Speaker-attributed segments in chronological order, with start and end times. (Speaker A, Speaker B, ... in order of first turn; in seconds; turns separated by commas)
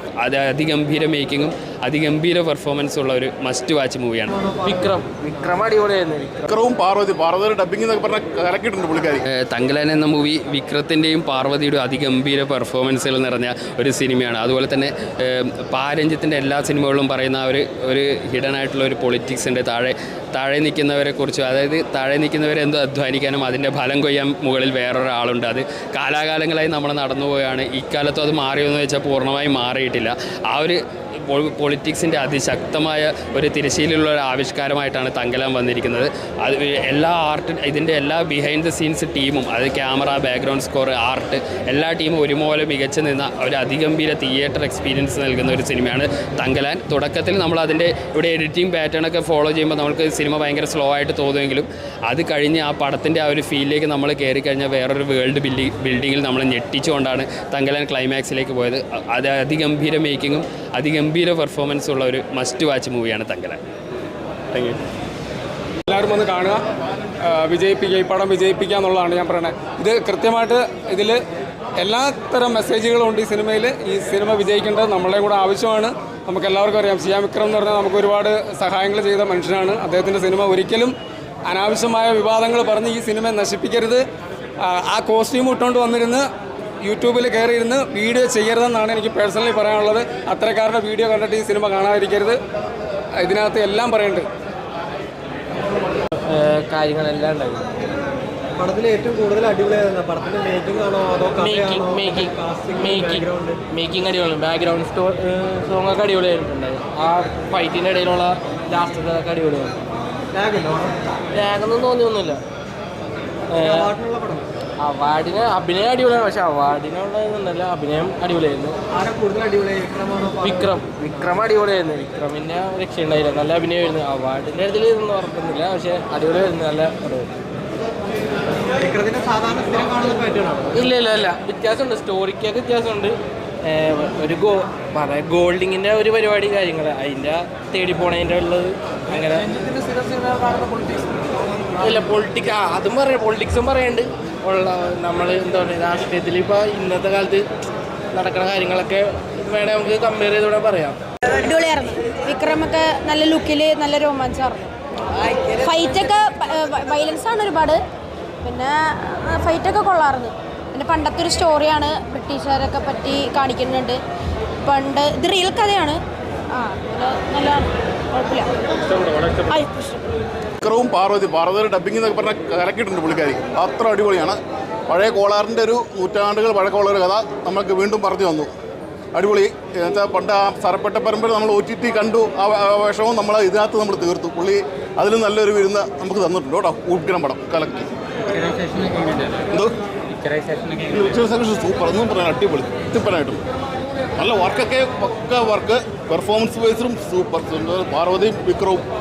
Speaker A: 0.2-4.3, Speaker B: 4.4-4.8, Speaker C: 4.6-6.5, Speaker D: 6.5-9.2, Speaker A: 9.3-63.6, Speaker A: 64.5-64.8, Speaker E: 65.9-66.6, Speaker E: 67.2-71.2, Speaker E: 71.8-80.9, Speaker E: 81.5-84.0, Speaker E: 84.6-86.2, Speaker E: 86.8-92.4, Speaker E: 93.2-94.2, Speaker C: 96.2-97.7, Speaker B: 98.6-103.6, Speaker C: 101.4-109.8, Speaker B: 110.3-110.9, Speaker C: 111.3-112.4, Speaker C: 113.5-113.9, Speaker B: 113.6-114.5, Speaker C: 114.8-118.8, Speaker B: 118.9-120.7, Speaker C: 120.4-127.3, Speaker B: 128.7-130.8, Speaker C: 130.7-141.0, Speaker C: 141.8-147.4, Speaker C: 148.1-151.0, Speaker F: 151.3-154.7, Speaker F: 155.3-157.8, Speaker F: 158.4-164.0, Speaker F: 164.6-166.0, Speaker F: 166.5-170.0, Speaker D: 170.6-174.4, Speaker D: 174.9-178.5, Speaker D: 179.1-187.9, Speaker D: 189.5-189.8, Speaker D: 190.6-193.4, Speaker D: 194.2-198.8